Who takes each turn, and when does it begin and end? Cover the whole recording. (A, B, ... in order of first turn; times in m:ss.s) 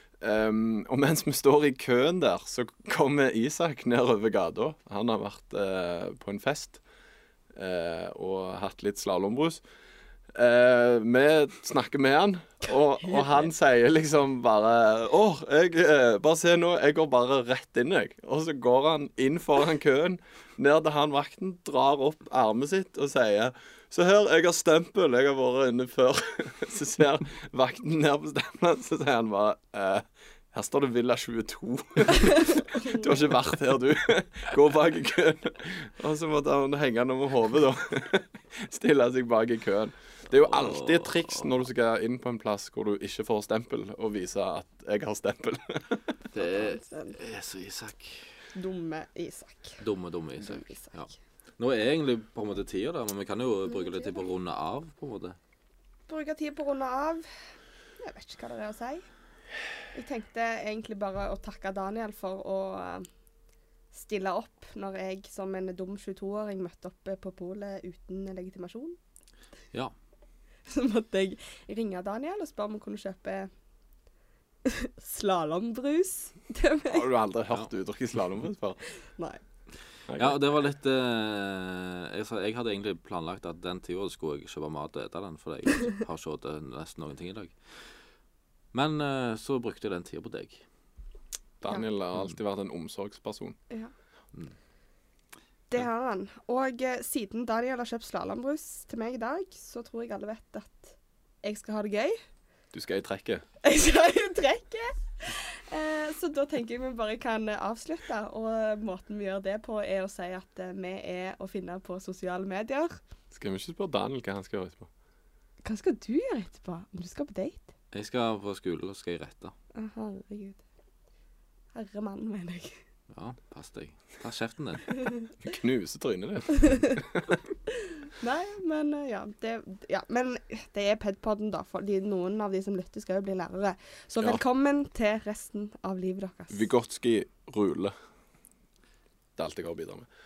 0:00.2-0:06.8 A
0:07.5-0:09.6 A
0:10.3-0:46.0 A
0:32.1-0:33.0 B
0:40.3-0:41.5 C
0:46.3-0:48.3 C
0:46.4-0:47.2 B
0:48.6-0:49.8 B
0:49.8-0:55.4 C
0:50.4-0:51.0 B
0:53.7-0:54.2 B
0:56.1-0:57.3 B
0:58.0-0:59.1 B
0:59.9-1:03.1 B
1:03.9-1:09.0 B
1:10.7-1:13.5 B
1:14.7-1:17.1 B
1:16.9-1:18.8 A
1:20.1-1:20.4 A
1:20.2-1:27.6 C
1:28.7-1:30.6 C
1:31.6-1:33.6 A
1:35.7-1:42.2 B
1:42.7-1:43.4 A
1:43.6-1:53.0 B
1:53.3-1:54.9 A
1:55.6-1:57.7 B
1:57.9-1:59.5 C
1:59.7-2:00.6 B
2:01.7-2:02.8 B
2:03.1-2:05.0 C
2:05.4-2:07.4 A
2:06.6-2:07.0 B
2:07.9-2:16.6 B
2:16.5-2:17.9 A
2:19.4-2:20.1 A